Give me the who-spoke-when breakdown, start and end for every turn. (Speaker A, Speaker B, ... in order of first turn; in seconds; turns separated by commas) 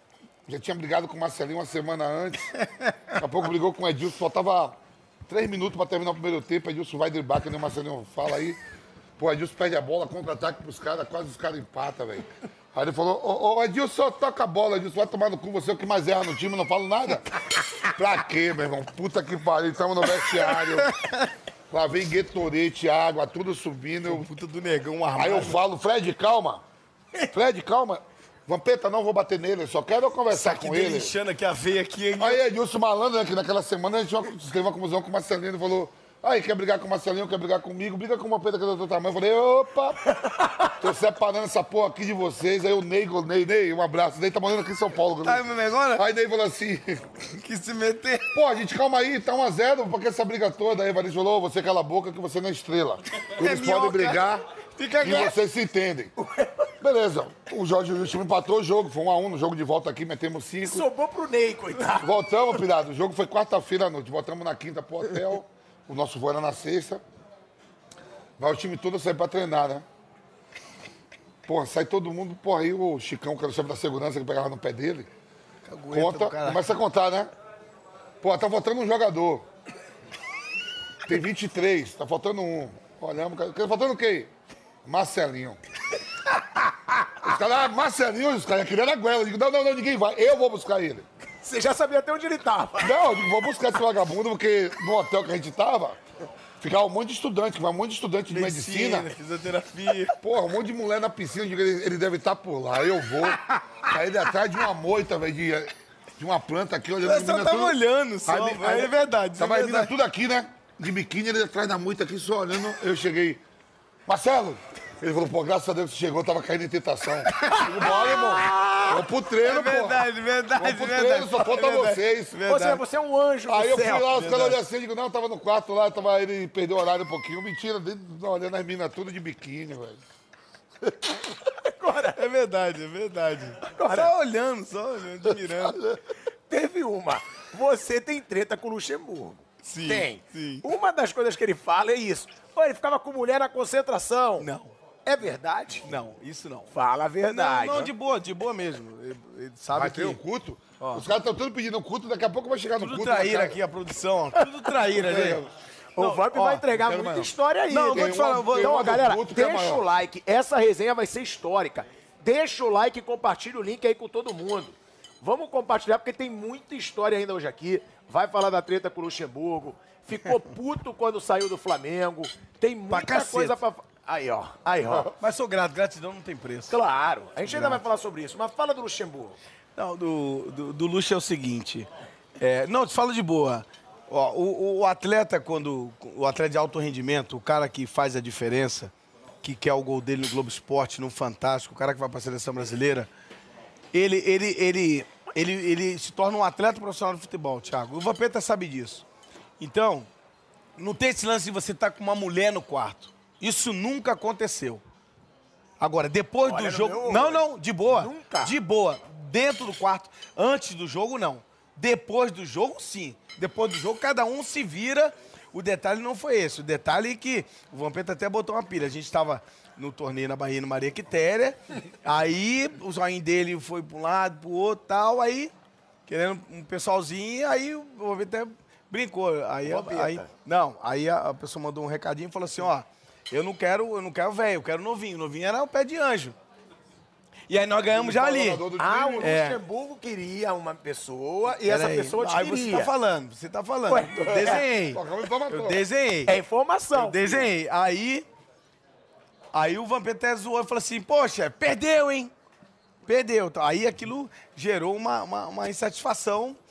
Speaker A: 0.5-2.5, Speaker A: 3.1-8.6, Speaker A: 9.2-20.9, Speaker B: 20.5-21.3, Speaker A: 21.7-24.3, Speaker B: 24.1-25.6, Speaker A: 25.2-26.6, Speaker A: 27.3-31.1, Speaker B: 30.3-32.4, Speaker A: 32.2-40.0, Speaker A: 40.7-47.2, Speaker B: 45.2-46.0, Speaker B: 47.4-48.3, Speaker A: 48.3-54.4, Speaker B: 53.4-54.2, Speaker B: 54.8-55.4, Speaker A: 55.0-56.1, Speaker C: 56.2-56.7, Speaker A: 56.8-60.9, Speaker C: 60.6-62.4, Speaker A: 62.0-67.0, Speaker A: 68.4-69.8, Speaker A: 71.5-75.1, Speaker B: 75.7-76.6, Speaker A: 75.9-77.3, Speaker A: 78.2-79.5, Speaker A: 81.1-84.3, Speaker A: 84.8-85.6, Speaker A: 87.1-91.1, Speaker C: 91.4-92.9, Speaker A: 92.8-96.0, Speaker A: 96.6-99.1, Speaker B: 98.3-100.2, Speaker A: 100.1-113.4, Speaker B: 107.0-109.9, Speaker A: 114.1-122.4, Speaker B: 117.4-122.8, Speaker C: 117.4-118.6, Speaker C: 122.5-124.5, Speaker A: 123.5-130.0, Speaker B: 124.2-124.5, Speaker C: 131.4-132.2, Speaker B: 132.2-135.8, Speaker C: 133.7-134.1, Speaker A: 135.5-136.0, Speaker C: 136.5-144.5, Speaker B: 139.6-140.7, Speaker B: 144.4-144.8, Speaker C: 145.1-145.9, Speaker B: 145.8-146.7, Speaker C: 146.7-147.9, Speaker B: 147.3-150.2, Speaker A: 149.7-153.6, Speaker B: 150.8-151.1, Speaker B: 152.8-155.4, Speaker C: 154.4-154.7, Speaker A: 154.9-155.5, Speaker C: 156.0-175.2, Speaker B: 156.0-156.7, Speaker A: 156.7-157.3, Speaker B: 157.7-158.9, Speaker A: 157.9-159.8, Speaker B: 172.9-173.6, Speaker B: 175.0-176.8, Speaker C: 176.7-179.4, Speaker B: 177.5-177.8, Speaker B: 179.8-188.9, Speaker B: 189.4-193.1, Speaker B: 193.9-199.1, Speaker B: 199.6-200.1, Speaker B: 200.8-204.8, Speaker B: 205.8-225.5, Speaker C: 206.4-208.5, Speaker B: 226.1-236.4, Speaker C: 229.6-230.3, Speaker B: 237.5-238.7, Speaker A: 237.9-239.4, Speaker C: 238.8-242.9, Speaker B: 239.2-239.6, Speaker B: 241.6-246.4, Speaker C: 243.9-244.7, Speaker A: 244.4-245.8, Speaker C: 246.3-247.5, Speaker B: 246.9-248.2, Speaker B: 249.5-252.3, Speaker B: 253.1-256.6